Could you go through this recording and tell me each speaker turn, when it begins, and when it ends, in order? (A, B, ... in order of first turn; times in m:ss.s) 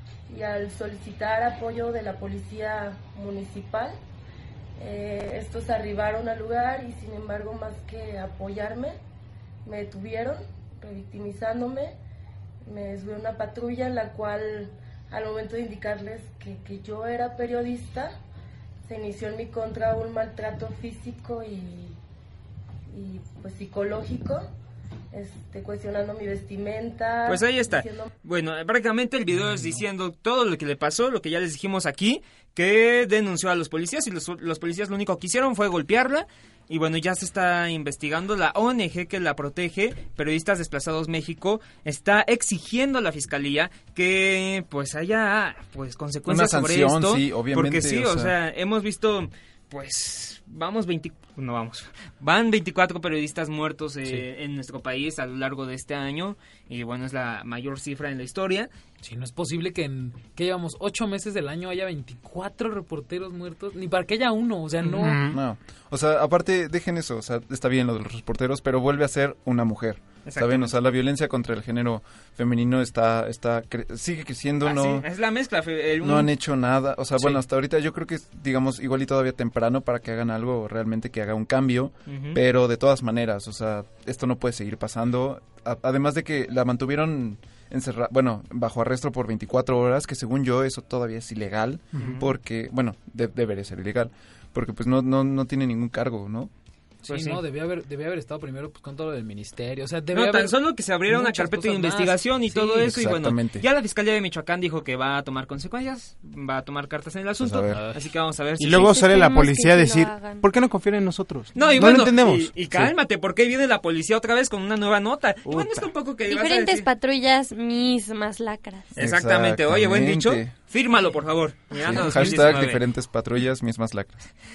0:00.3-0:04.0 A
0:04.8-0:09.0 A
0:09.6-0:12.0 A
0:12.7-0:18.1 A
0:18.9-0:22.0 A
0:22.9-0:24.5 A
0:25.1-0:28.1 A
0:27.3-0:58.7 B
0:29.4-0:29.8 C
0:46.3-0:48.3 D
0:59.0-1:05.2 C
1:04.8-1:05.4 E
1:05.3-1:15.1 D
1:10.2-1:10.7 B
1:14.6-1:16.3 B
1:16.0-1:36.5 D
1:22.1-1:22.4 B
1:32.0-1:32.3 B
1:37.0-1:40.6 C
1:37.1-1:37.4 B
1:40.1-1:49.0 B
1:41.1-1:42.9 C
1:42.8-1:43.6 D
1:47.4-1:47.8 D
1:47.7-1:48.0 C
1:48.6-1:52.9 E
1:48.8-1:50.5 F
1:51.6-1:56.9 B
1:55.5-1:55.9 E
1:56.3-1:58.9 F
1:59.0-2:02.8 B
1:59.0-2:00.5 D
2:01.8-2:04.3 D